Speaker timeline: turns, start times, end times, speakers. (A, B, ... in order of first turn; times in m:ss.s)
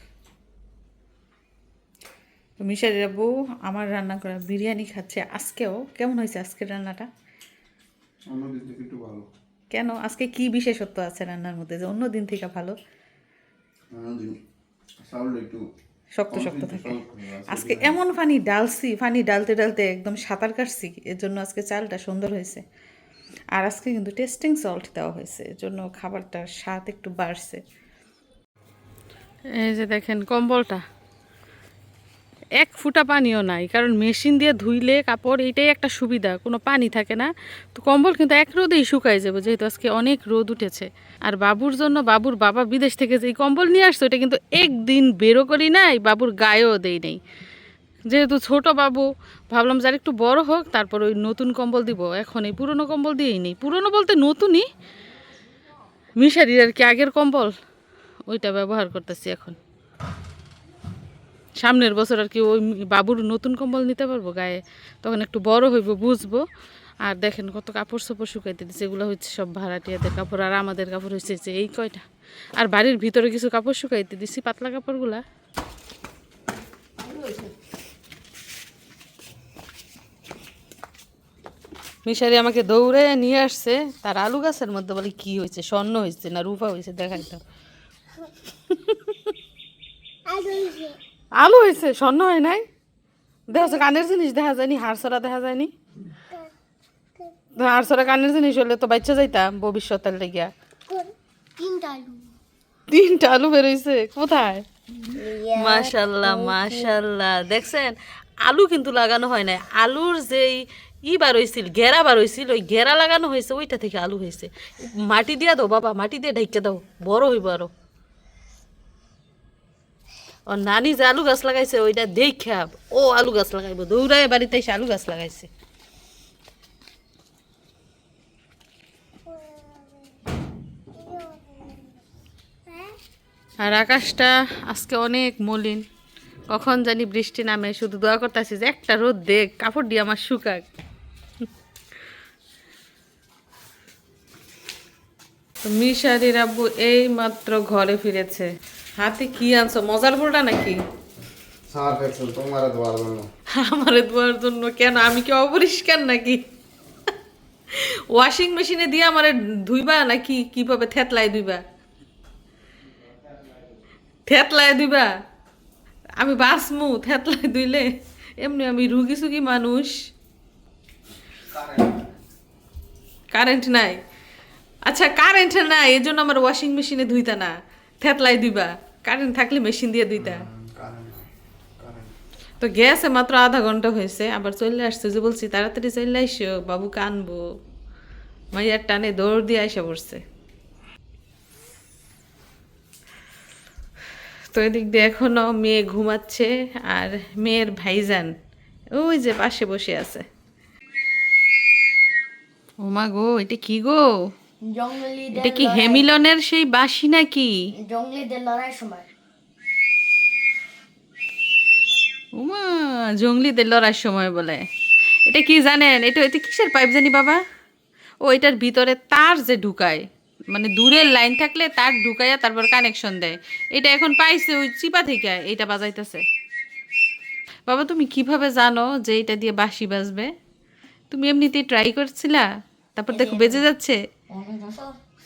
0:02.6-0:07.1 A
0:08.3-0:09.3 B
0:09.7-0:12.7 A
0:13.9-0:14.4 B
0:15.0-0:15.6 B
0:16.2-0:22.6 A
0:16.3-0:18.0 B
0:23.6-0:27.6 A
0:29.5-0:30.8 A
0:32.6-0:47.2 A
0:48.1-0:54.7 A
0:56.2-0:57.5 A
0:58.3-0:59.6 A
1:01.6-1:06.4 A
1:07.0-1:15.2 A
1:17.0-1:17.5 C
1:22.0-1:27.4 A
1:28.6-1:29.3 A
1:30.3-1:31.0 C
1:31.4-1:32.6 A
1:33.5-1:35.7 A
1:37.6-1:40.5 A
1:40.9-1:42.3 C
1:42.9-1:44.6 A
1:45.1-1:46.9 C
1:45.5-1:57.7 A
2:00.5-2:05.5 A
2:09.5-2:09.8 C
2:11.0-2:11.4 C
2:13.6-2:15.8 A
2:16.5-2:20.6 A
2:25.6-2:30.8 A
2:31.7-2:33.2 B
2:33.6-2:36.4 A
2:37.7-2:41.6 A
2:43.3-2:43.6 B
2:44.2-2:45.1 A
2:46.2-2:47.9 A
2:48.4-2:50.0 A
2:51.5-2:52.0 B
2:53.3-2:54.0 A
2:54.8-3:00.4 A
3:00.1-3:02.1 B
3:02.6-3:07.5 A
3:08.5-3:10.2 A
3:14.5-3:18.3 A
3:18.9-3:20.2 A
3:22.8-3:24.1 A
3:24.7-3:26.1 C
3:25.3-3:27.5 A
3:27.8-3:29.1 C
3:32.3-3:34.6 A
3:35.2-3:37.4 A
3:38.2-3:46.2 A
3:47.7-3:50.3 A
3:51.1-3:54.0 A
3:53.1-3:53.6 C
3:54.3-3:55.0 C